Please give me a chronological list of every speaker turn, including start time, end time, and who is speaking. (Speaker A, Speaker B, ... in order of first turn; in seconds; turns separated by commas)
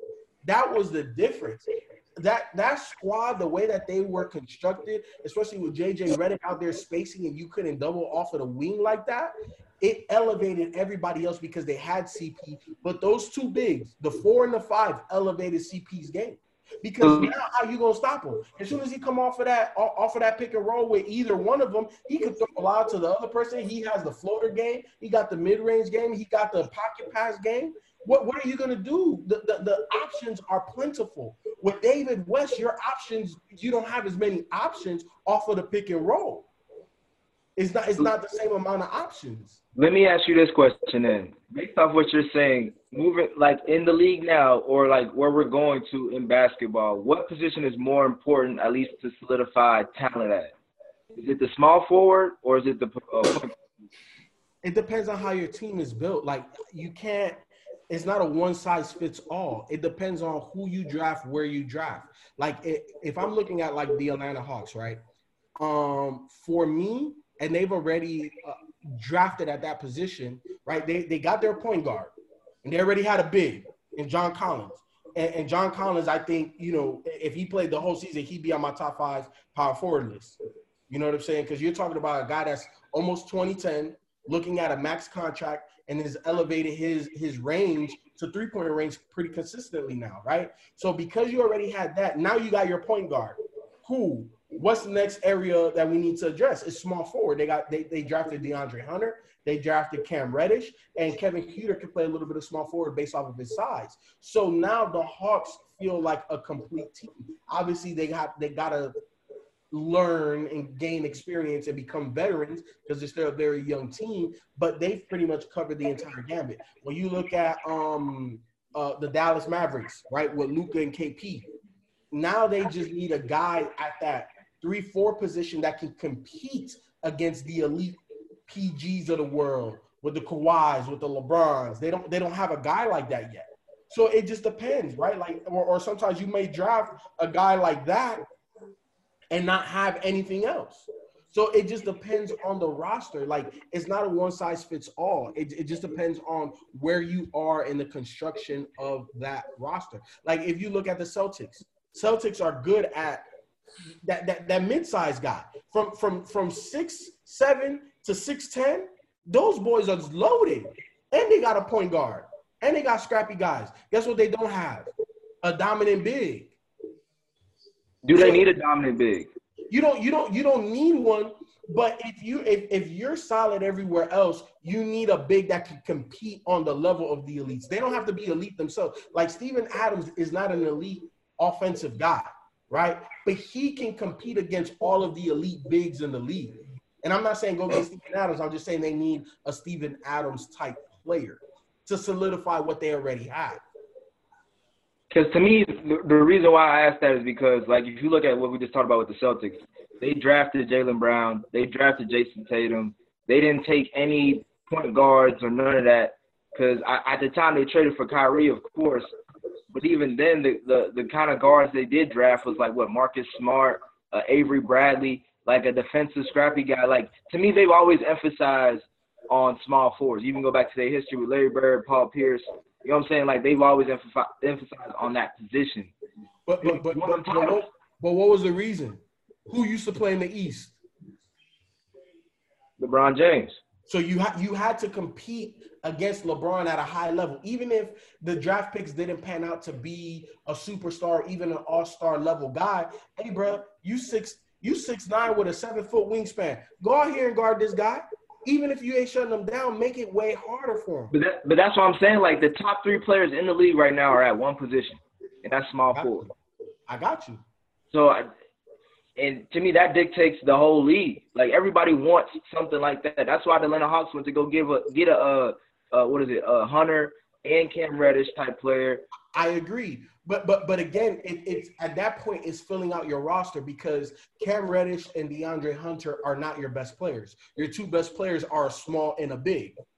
Speaker A: 0.4-36.5, Speaker B: 17.0-17.3, Speaker A: 37.6-39.6, Speaker B: 39.8-50.5, Speaker B: 51.1-53.5, Speaker A: 54.6-65.0, Speaker A: 65.6-72.1, Speaker A: 72.6-80.4, Speaker A: 80.9-108.9, Speaker A: 109.7-121.5, Speaker A: 122.1-138.2, Speaker A: 139.3-153.3, Speaker A: 154.0-164.9, Speaker A: 165.4-166.5, Speaker B: 168.0-169.3, Speaker A: 168.1-168.4, Speaker A: 169.7-193.6, Speaker B: 195.1-209.1, Speaker B: 209.7-225.9, Speaker A: 226.5-230.7, Speaker B: 226.6-227.7, Speaker B: 232.8-233.6, Speaker A: 233.9-251.1, Speaker B: 251.1-256.3, Speaker A: 255.9-256.3, Speaker A: 256.9-257.4, Speaker B: 257.9-258.3, Speaker B: 259.2-269.0, Speaker A: 269.3-279.8